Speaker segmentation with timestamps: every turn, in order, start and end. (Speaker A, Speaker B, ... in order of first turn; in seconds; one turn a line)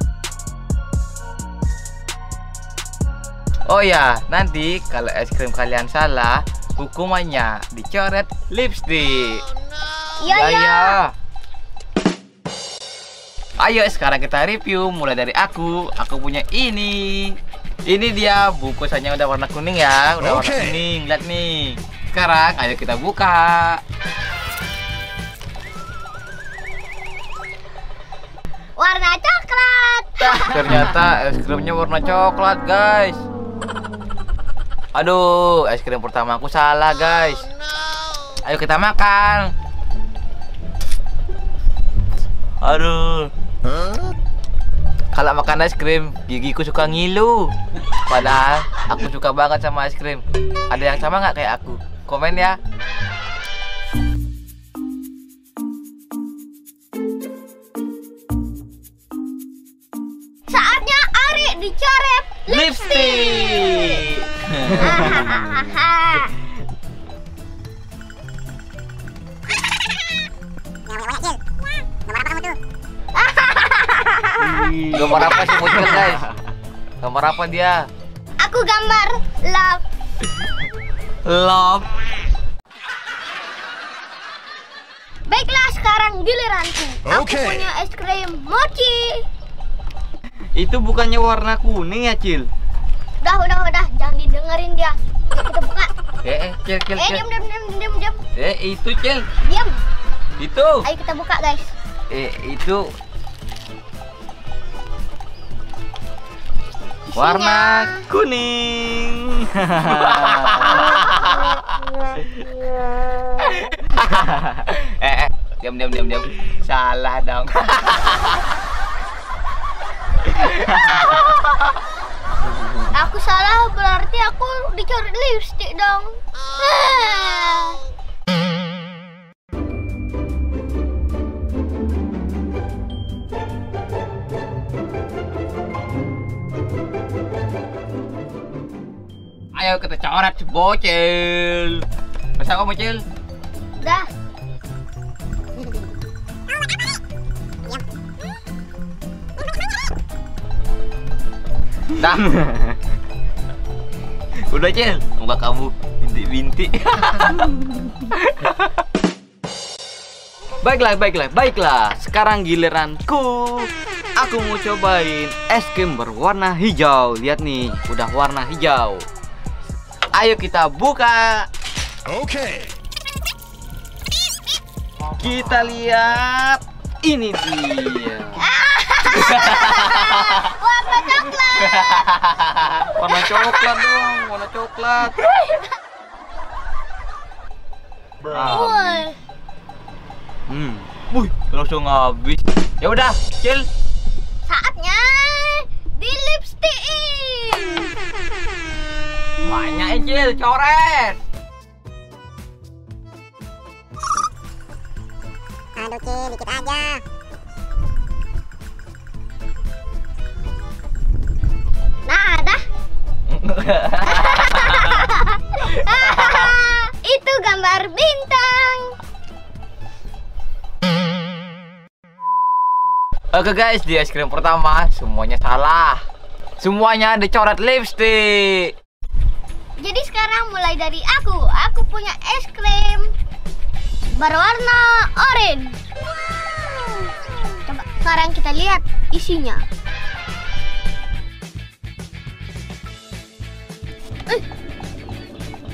Speaker A: 3.6-9.4
Speaker B: 10.2-11.0
Speaker C: 10.3-11.1
Speaker A: 13.6-23.8
Speaker B: 28.8-30.9
Speaker A: 30.2-33.2
Speaker A: 34.9-37.5
Speaker A: 38.4-39.5
Speaker A: 42.6-43.3
Speaker A: 45.1-47.5
Speaker A: 48.1-52.6
Speaker B: 60.5-64.0
Speaker A: 62.5-65.4
Speaker B: 64.8-66.3
Speaker B: 71.0-71.4
Speaker B: 72.2-72.5
Speaker B: 73.1-75.9
Speaker C: 74.4-76.2
Speaker A: 74.9-76.3
Speaker A: 77.0-77.9
Speaker B: 78.4-79.8
Speaker A: 81.2-81.9
Speaker B: 85.3-89.2
Speaker C: 90.5-92.5
Speaker B: 93.2-95.9
Speaker A: 96.2-97.2
Speaker B: 97.0-98.2
Speaker A: 98.3-99.2
Speaker B: 99.4-99.7
Speaker A: 100.4-100.9
Speaker B: 100.8-101.7
Speaker A: 102.1-102.8
Speaker B: 107.1-108.0
Speaker C: 107.1-110.8
Speaker A: 109.8-111.6
Speaker A: 113.4-118.5
Speaker A: 120.3-121.1
Speaker B: 120.8-121.2
Speaker B: 122.9-127.8
Speaker A: 139.5-141.8
Speaker A: 142.4-143.0
Speaker B: 143.8-144.1
Speaker A: 151.9-152.2
Speaker C: 152.3-152.7
Speaker A: 154.4-157.5
Speaker A: 158.1-158.5
Speaker C: 160.6-169.1
Speaker C: 170.1-171.5
Speaker C: 175.2-178.4
Speaker B: 178.4-182.0
Speaker A: 179.1-180.5
Speaker A: 181.6-182.9
Speaker C: 182.9-185.2
Speaker B: 185.2-185.7
Speaker A: 188.2-189.0
Speaker B: 188.3-189.2
Speaker C: 190.5-190.9
Speaker A: 191.1-193.7
Speaker B: 194.5-197.9
Speaker A: 199.4-201.2
Speaker B: 205.8-207.0
Speaker B: 212.1-212.6
Speaker A: 213.3-215.1
Speaker B: 214.0-218.9
Speaker A: 216.0-216.5
Speaker A: 223.3-226.0
Speaker A: 226.6-228.7
Speaker B: 229.8-233.1
Speaker B: 234.2-235.8
Speaker B: 236.7-237.1
Speaker B: 237.6-239.6